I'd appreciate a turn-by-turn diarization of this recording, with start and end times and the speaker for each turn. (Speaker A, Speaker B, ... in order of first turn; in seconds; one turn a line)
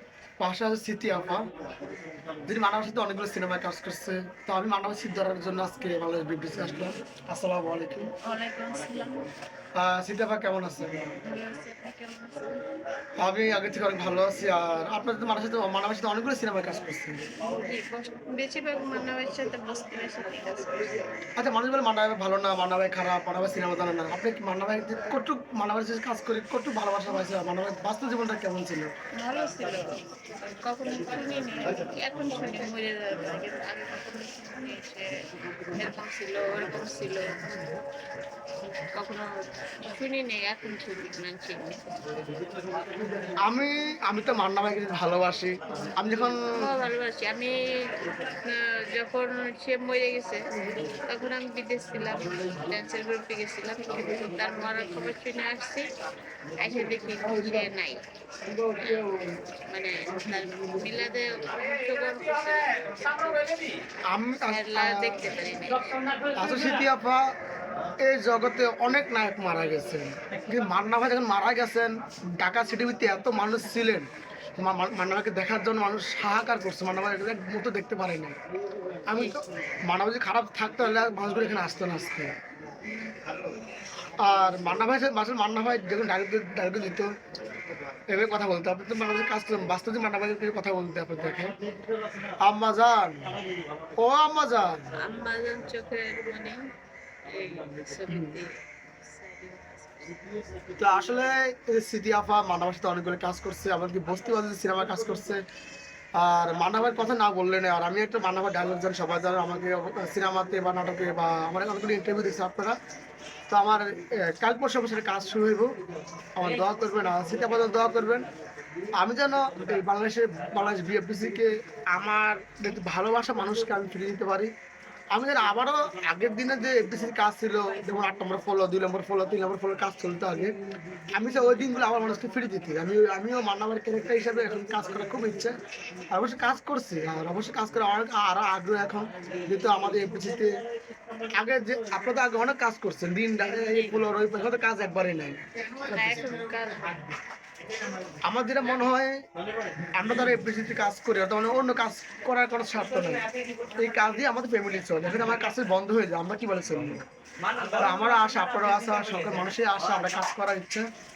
Speaker A: 0.4-1.5
Speaker A: 2.4-8.1
Speaker B: 8.2-9.3
Speaker A: 9.8-11.1
Speaker B: 11.2-12.6
Speaker A: 13.2-17.3
Speaker B: 17.5-21.0
Speaker A: 21.4-28.9
Speaker B: 29.2-37.5
Speaker B: 39.0-39.3
Speaker B: 39.8-41.8
Speaker A: 43.5-46.7
Speaker B: 46.5-55.9
Speaker B: 56.6-58.0
Speaker A: 57.3-57.6
Speaker A: 58.5-59.3
Speaker B: 58.8-63.5
Speaker A: 64.1-65.1
Speaker B: 64.5-66.3
Speaker A: 66.3-67.3
Speaker A: 68.0-78.4
Speaker A: 79.1-82.3
Speaker B: 83.1-83.3
Speaker A: 84.2-87.1
Speaker A: 88.1-91.5
Speaker A: 92.4-93.4
Speaker A: 94.0-94.8
Speaker B: 94.9-96.6
Speaker B: 97.2-100.2
Speaker A: 98.1-98.4
Speaker A: 100.7-105.4
Speaker A: 106.2-112.8
Speaker A: 113.5-115.7
Speaker A: 116.3-118.3
Speaker A: 119.0-124.5
Speaker A: 125.1-130.5
Speaker A: 131.1-135.5
Speaker A: 136.1-140.6
Speaker A: 141.4-146.3
Speaker B: 143.7-144.0
Speaker B: 145.8-147.1
Speaker A: 148.2-149.2
Speaker A: 149.9-153.2
Speaker A: 153.8-157.0
Speaker A: 157.8-160.8